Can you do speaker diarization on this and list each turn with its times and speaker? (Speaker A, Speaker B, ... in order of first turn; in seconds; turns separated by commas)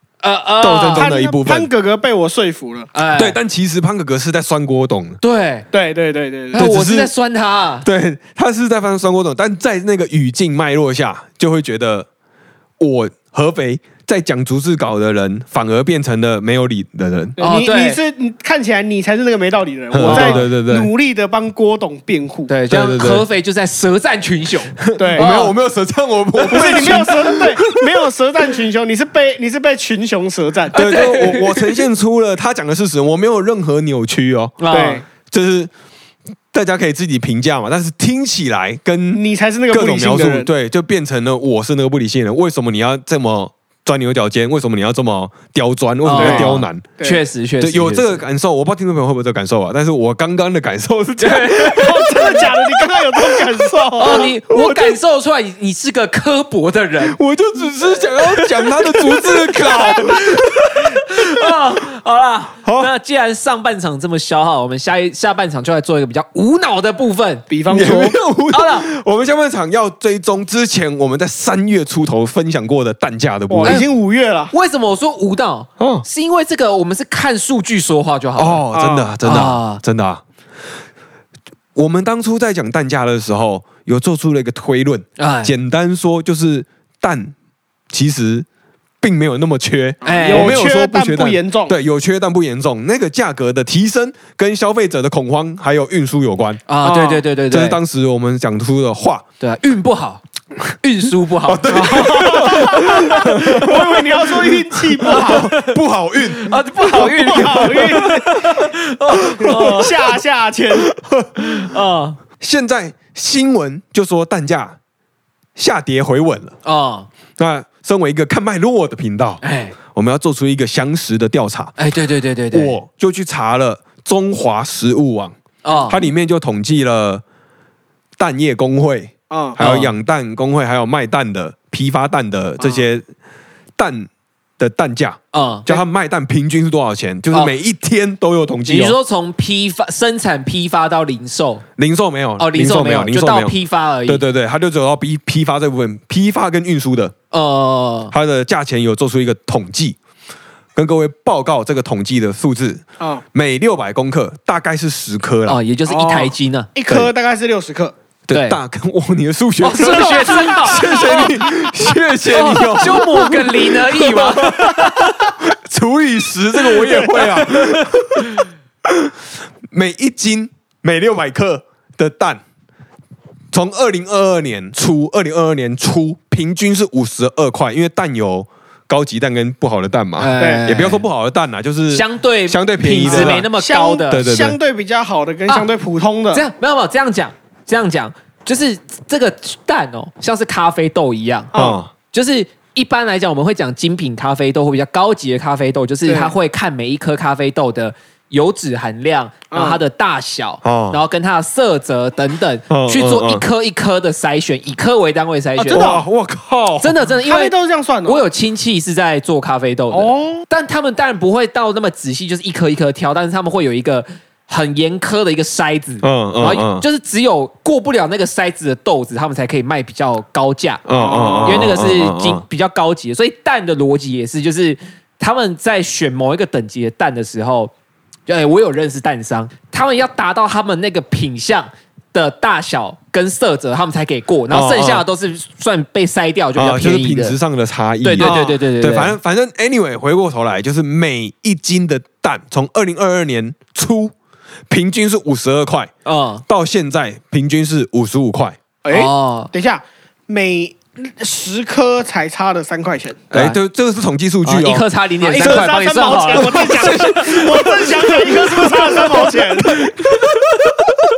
Speaker A: 0.2-1.1, Speaker B: 0.6-1.7, Speaker C: 0.8-2.9, Speaker A: 2.9-3.4, Speaker B: 3.2-5.2, Speaker A: 5.2-5.7, Speaker C: 5.7-6.7, Speaker A: 6.5-7.9, Speaker B: 6.6-7.1, Speaker B: 7.8-12.1, Speaker B: 12.8-17.4, Speaker C: 17.4-22.5, Speaker A: 17.4-18.0, Speaker B: 19.9-20.9, Speaker A: 20.0-20.4, Speaker A: 22.5-25.5, Speaker B: 22.7-23.2, Speaker B: 24.8-28.0, Speaker C: 25.0-25.3, Speaker C: 26.4-30.8, Speaker A: 26.6-26.9, Speaker A: 30.7-31.8, Speaker B: 30.7-34.6, Speaker A: 34.6-35.0, Speaker C: 34.7-35.0, Speaker B: 35.3-35.7, Speaker B: 36.5-46.9, Speaker C: 39.1-40.5, Speaker A: 46.0-48.1, Speaker C: 46.2-47.2, Speaker B: 47.6-55.0, Speaker A: 51.2-52.4, Speaker C: 51.8-54.3, Speaker A: 54.0-57.2, Speaker B: 57.0-61.7, Speaker A: 57.8-68.0, Speaker B: 62.6-62.9, Speaker C: 67.5-68.2, Speaker B: 67.7-73.8, Speaker A: 68.5-68.9, Speaker C: 73.5-74.5, Speaker A: 74.5-78.7, Speaker B: 75.8-76.0, Speaker B: 78.4-80.2, Speaker C: 78.7-79.1, Speaker A: 79.2-79.8, Speaker B: 81.8-87.3, Speaker A: 85.2-85.5, Speaker B: 87.9-88.5, Speaker B: 89.0-96.7, Speaker C: 90.0-91.7, Speaker A: 90.0-90.6, Speaker A: 96.7-97.8, Speaker C: 96.8-97.2, Speaker B: 97.5-99.2, Speaker A: 99.4-100.2, Speaker A: 100.8-103.7, Speaker B: 101.5-108.5, Speaker C: 101.7-105.5, Speaker A: 105.1-105.8, Speaker A: 106.3-110.1, Speaker C: 106.8-108.4, Speaker B: 109.3-109.8, Speaker C: 109.4-110.9, Speaker B: 110.8-111.7, Speaker A: 111.4-112.2, Speaker B: 112.4-114.8, Speaker B: 115.6-116.5, Speaker A: 116.6-117.1, Speaker B: 117.4-121.8, Speaker A: 119.4-119.8, Speaker A: 121.8-122.8, Speaker B: 122.5-125.3, Speaker A: 125.6-126.0, Speaker B: 125.9-127.2, Speaker B: 128.2-133.1, Speaker C: 129.3-129.6, Speaker A: 129.6-129.9, Speaker B: 133.8-139.0, Speaker A: 135.3-135.7, Speaker A: 138.7-141.6, Speaker B: 141.8-147.2, Speaker A: 142.4-144.2, Speaker A: 147.3-148.1, Speaker B: 148.1-150.0, Speaker B: 150.8-152.8, Speaker B: 153.3-155.6, Speaker A: 155.5-156.7, Speaker C: 155.9-157.9, Speaker B: 158.3-169.1, Speaker A: 158.3-158.6, Speaker A: 159.6-161.4, Speaker C: 159.8-161.4, Speaker A: 162.3-165.3, Speaker C: 166.8-167.6, Speaker A: 167.4-167.9, Speaker B: 169.7-172.4, Speaker B: 173.5-183.5, Speaker A: 180.2-181.1, Speaker C: 180.4-180.6, Speaker A: 181.9-184.2, Speaker C: 183.0-186.4, Speaker B: 184.1-184.6, Speaker A: 186.3-191.5, Speaker C: 191.5-191.8, Speaker B: 191.5-191.9, Speaker A: 192.1-205.9, Speaker C: 196.1-196.3, Speaker C: 199.5-199.8, Speaker B: 200.6-201.0, Speaker B: 202.7-203.4, Speaker C: 205.6-206.1, Speaker B: 205.7-207.0, Speaker A: 206.8-220.8, Speaker C: 207.2-208.2, Speaker C: 209.9-210.4, Speaker B: 216.0-216.8, Speaker B: 220.9-222.4, Speaker C: 221.0-221.8, Speaker A: 221.4-227.7, Speaker A: 228.3-237.4, Speaker B: 234.5-235.1, Speaker B: 236.6-244.1, Speaker A: 238.0-239.2, Speaker C: 238.2-238.6, Speaker B: 244.7-245.9, Speaker A: 246.1-246.4, Speaker B: 246.5-248.6, Speaker C: 248.8-253.2, Speaker A: 248.9-249.5, Speaker B: 253.3-254.9, Speaker A: 254.4-257.7, Speaker C: 255.2-259.9, Speaker B: 255.4-255.7, Speaker B: 256.3-260.9, Speaker A: 259.8-260.9